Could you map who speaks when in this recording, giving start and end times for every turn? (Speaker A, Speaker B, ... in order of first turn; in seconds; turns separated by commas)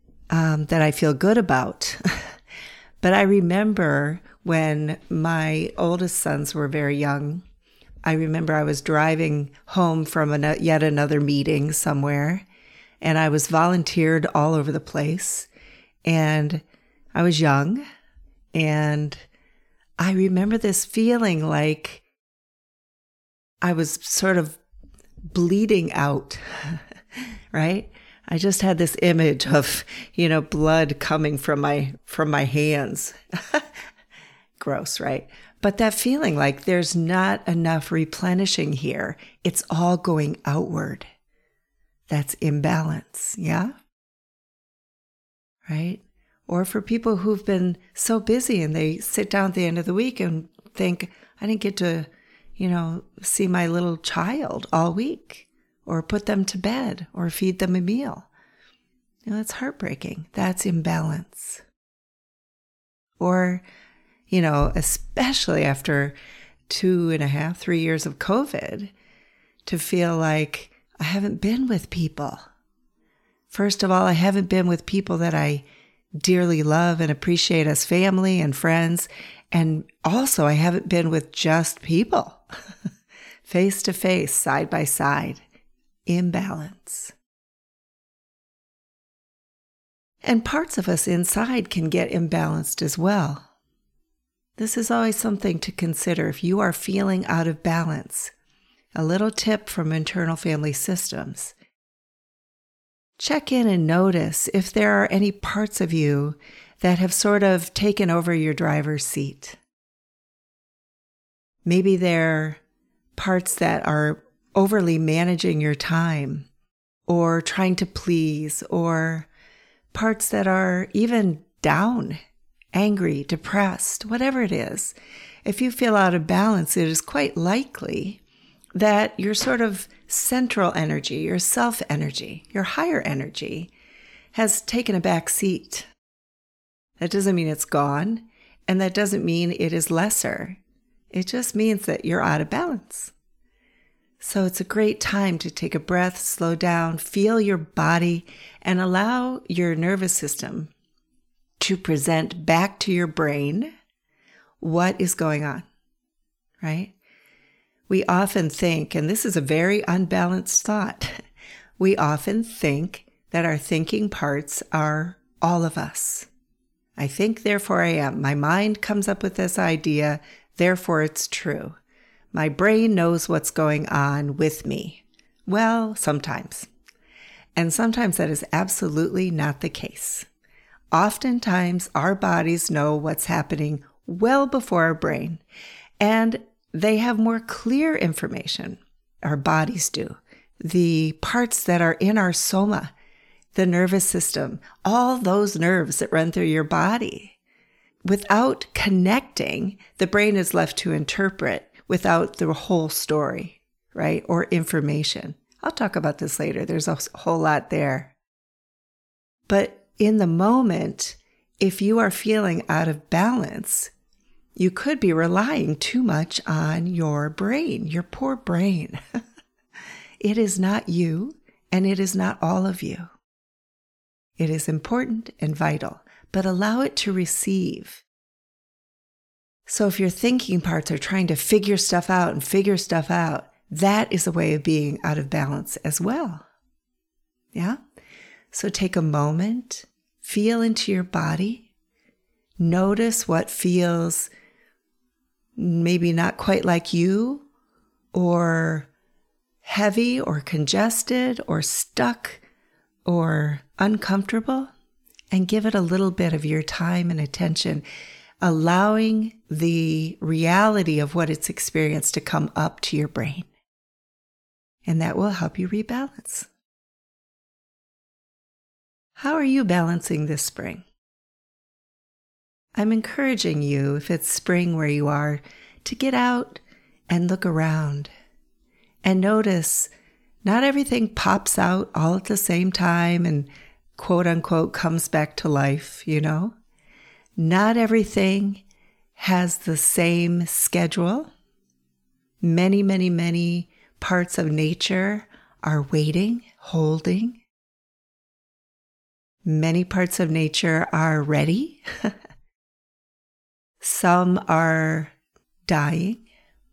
Speaker A: 0.3-2.3, Speaker A: 3.0-7.4, Speaker A: 8.0-12.4, Speaker A: 13.0-15.5, Speaker A: 16.0-17.8, Speaker A: 18.5-19.2, Speaker A: 20.0-22.0, Speaker A: 23.6-24.6, Speaker A: 25.3-26.8, Speaker A: 27.5-33.7, Speaker A: 34.6-41.1, Speaker A: 42.1-43.7, Speaker A: 45.7-58.3, Speaker A: 59.2-61.6, Speaker A: 63.2-63.6, Speaker A: 64.3-66.2, Speaker A: 66.7-68.9, Speaker A: 69.7-72.5, Speaker A: 73.5-75.6, Speaker A: 76.2-82.4, Speaker A: 83.4-85.4, Speaker A: 86.0-87.1, Speaker A: 90.2-93.5, Speaker A: 94.6-98.3, Speaker A: 98.9-101.5, Speaker A: 103.2-109.6, Speaker A: 111.7-112.6, Speaker A: 113.2-116.5, Speaker A: 117.1-119.3, Speaker A: 119.9-122.2, Speaker A: 122.7-128.2, Speaker A: 128.7-133.7, Speaker A: 134.3-135.9, Speaker A: 137.0-140.6, Speaker A: 141.1-143.1, Speaker A: 144.2-150.7, Speaker A: 151.6-153.7, Speaker A: 154.6-155.7, Speaker A: 156.6-156.9, Speaker A: 157.9-161.2, Speaker A: 161.8-166.3, Speaker A: 167.0-171.8, Speaker A: 172.3-176.7, Speaker A: 177.6-180.3, Speaker A: 180.9-185.4, Speaker A: 186.0-192.9, Speaker A: 193.5-197.4, Speaker A: 198.0-208.1, Speaker A: 209.5-213.9, Speaker A: 214.6-219.0, Speaker A: 220.2-223.1, Speaker A: 224.4-228.0, Speaker A: 229.7-236.4, Speaker A: 237.5-237.8, Speaker A: 238.5-241.7, Speaker A: 242.6-244.3, Speaker A: 245.6-247.5, Speaker A: 248.1-248.9, Speaker A: 249.6-252.4, Speaker A: 253.1-254.7, Speaker A: 255.3-257.8, Speaker A: 258.4-263.5, Speaker A: 264.9-266.5, Speaker A: 269.2-270.8, Speaker A: 272.8-278.1, Speaker A: 279.0-279.9, Speaker A: 280.4-286.6, Speaker A: 287.4-288.6, Speaker A: 289.2-291.3, Speaker A: 292.4-297.4, Speaker A: 299.4-302.1, Speaker A: 303.8-305.1, Speaker A: 305.7-306.2